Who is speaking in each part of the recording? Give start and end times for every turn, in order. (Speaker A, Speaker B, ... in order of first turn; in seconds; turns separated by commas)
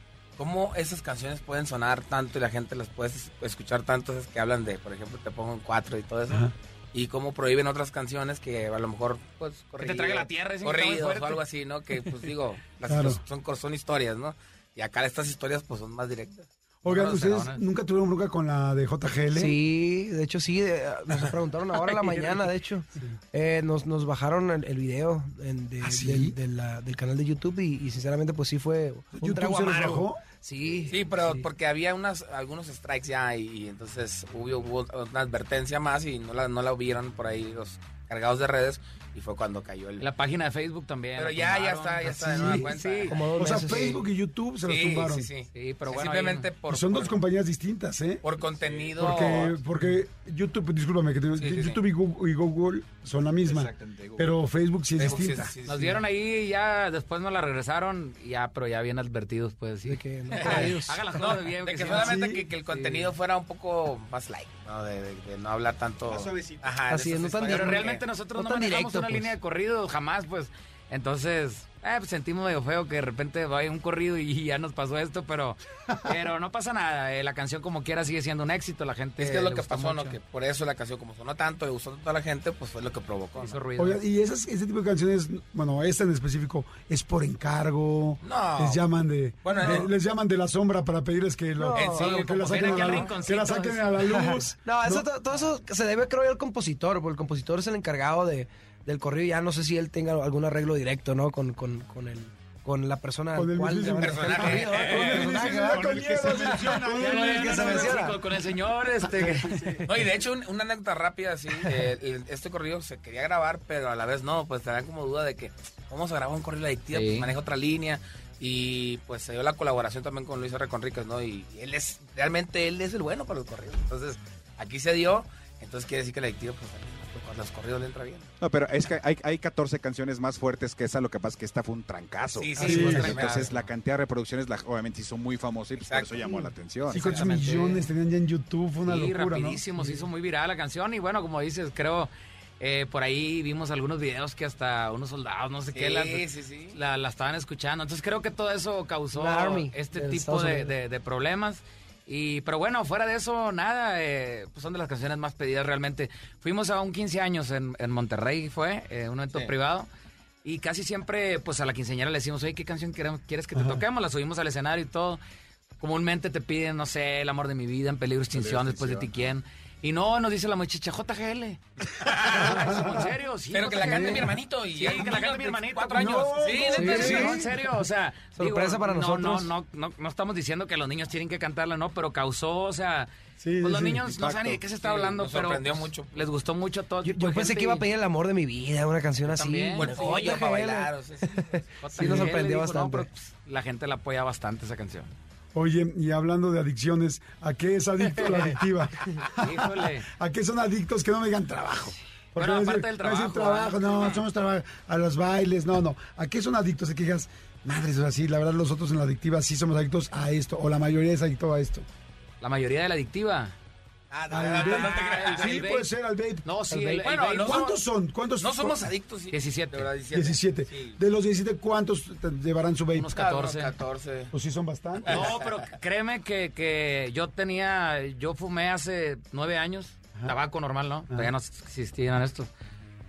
Speaker A: 0.4-17.3, Speaker B: 9.8-11.4, Speaker C: 12.9-13.2, Speaker C: 16.8-19.6, Speaker B: 16.9-17.6, Speaker D: 19.3-31.5, Speaker B: 21.8-22.5, Speaker C: 25.8-26.4, Speaker C: 29.2-30.2, Speaker A: 30.9-40.1, Speaker B: 40.0-43.2, Speaker A: 41.2-43.9, Speaker C: 42.0-42.7, Speaker D: 43.1-44.0, Speaker C: 43.4-45.3, Speaker A: 44.7-47.2, Speaker B: 45.5-46.5, Speaker C: 46.7-48.2, Speaker A: 48.2-49.6, Speaker C: 49.0-55.5, Speaker A: 51.4-51.8, Speaker E: 53.5-54.3, Speaker A: 55.0-56.0, Speaker B: 55.7-63.1, Speaker D: 59.9-61.1, Speaker A: 60.3-68.0, Speaker C: 61.9-62.5, Speaker E: 66.1-66.8, Speaker D: 66.9-69.3, Speaker B: 67.5-80.2, Speaker A: 79.2-83.6, Speaker B: 83.4-84.0, Speaker C: 83.8-95.1, Speaker A: 88.2-88.9, Speaker A: 89.4-89.9, Speaker D: 91.6-92.1, Speaker A: 91.7-93.0, Speaker B: 92.0-94.0, Speaker D: 94.1-108.2, Speaker C: 103.3-108.1, Speaker A: 103.8-105.6, Speaker B: 106.6-109.8, Speaker C: 109.1-109.8, Speaker A: 109.8-128.3, Speaker B: 116.9-117.3, Speaker E: 128.4-137.2, Speaker A: 132.4-133.7, Speaker D: 132.6-133.4, Speaker C: 132.6-133.2, Speaker A: 135.8-136.3, Speaker C: 136.3-140.0, Speaker A: 136.8-137.8, Speaker B: 137.4-137.7, Speaker B: 138.9-159.9, Speaker A: 145.7-146.8, Speaker D: 149.1-150.7, Speaker B: 160.4-165.2, Speaker C: 163.6-163.8, Speaker B: 165.8-183.1, Speaker E: 168.3-169.2, Speaker A: 172.0-172.7, Speaker C: 172.3-173.1, Speaker A: 173.5-177.3, Speaker C: 173.9-174.2, Speaker C: 175.9-177.7, Speaker D: 176.7-177.5, Speaker D: 178.4-179.5, Speaker C: 183.4-184.2, Speaker B: 183.6-187.9, Speaker E: 184.1-184.6, Speaker A: 184.8-186.2, Speaker D: 187.0-193.1, Speaker B: 189.2-190.3, Speaker A: 189.7-191.6, Speaker B: 191.8-195.1, Speaker C: 195.5-211.9, Speaker B: 198.2-198.5, Speaker B: 199.3-200.1, Speaker B: 202.3-204.2, Speaker B: 212.4-213.5, Speaker A: 214.1-215.6, Speaker C: 214.3-218.8, Speaker B: 214.6-215.9, Speaker B: 216.4-217.8, Speaker A: 217.0-217.8, Speaker A: 218.4-221.0, Speaker B: 219.3-219.9, Speaker C: 220.1-223.2, Speaker B: 222.9-223.7, Speaker A: 223.2-224.3, Speaker C: 224.3-225.3, Speaker A: 225.1-225.7, Speaker B: 225.1-232.5